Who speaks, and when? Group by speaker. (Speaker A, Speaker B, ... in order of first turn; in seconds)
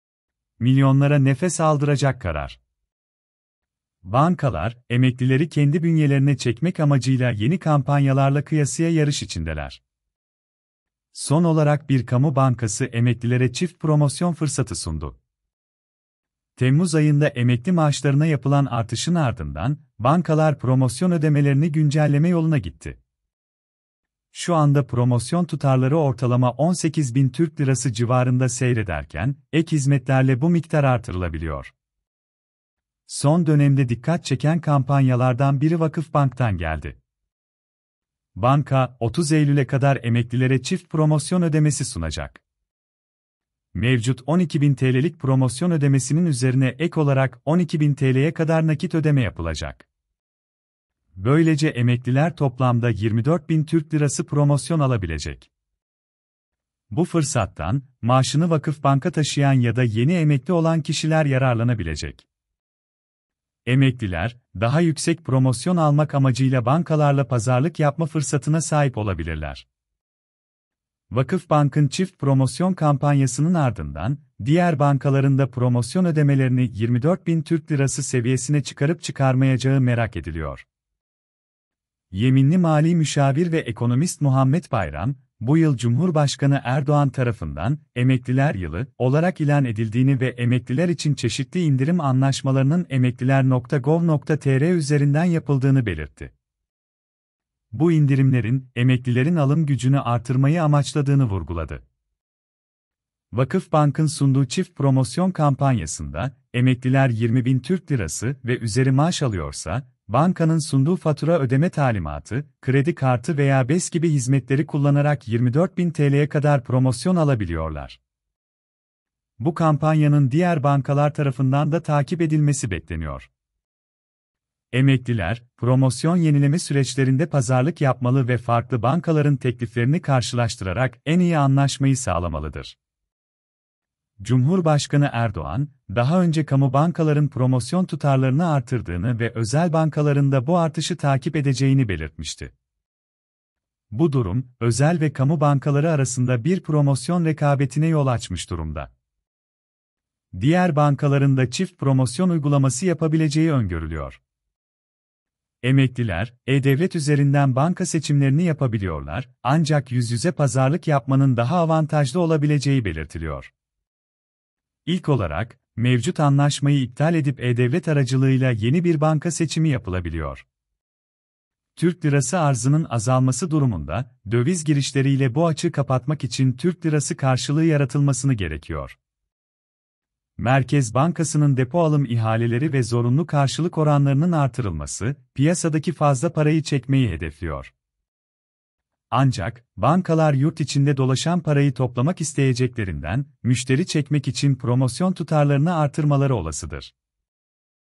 Speaker A: 0.6-2.6, 4.0-9.8, 11.1-15.2, 16.6-23.0, 24.3-31.7, 33.1-37.0, 38.4-42.4, 43.7-49.9, 51.2-55.5, 56.9-62.3, 63.6-69.7, 71.1-80.7, 82.1-96.3, 97.7-101.8, 103.3-118.0, 119.4-123.3, 124.7-132.8, 134.2-142.5, 143.9-148.9, 150.3-154.2, 155.6-163.5, 164.8-170.4, 171.8-179.0, 180.4-187.7, 189.1-196.9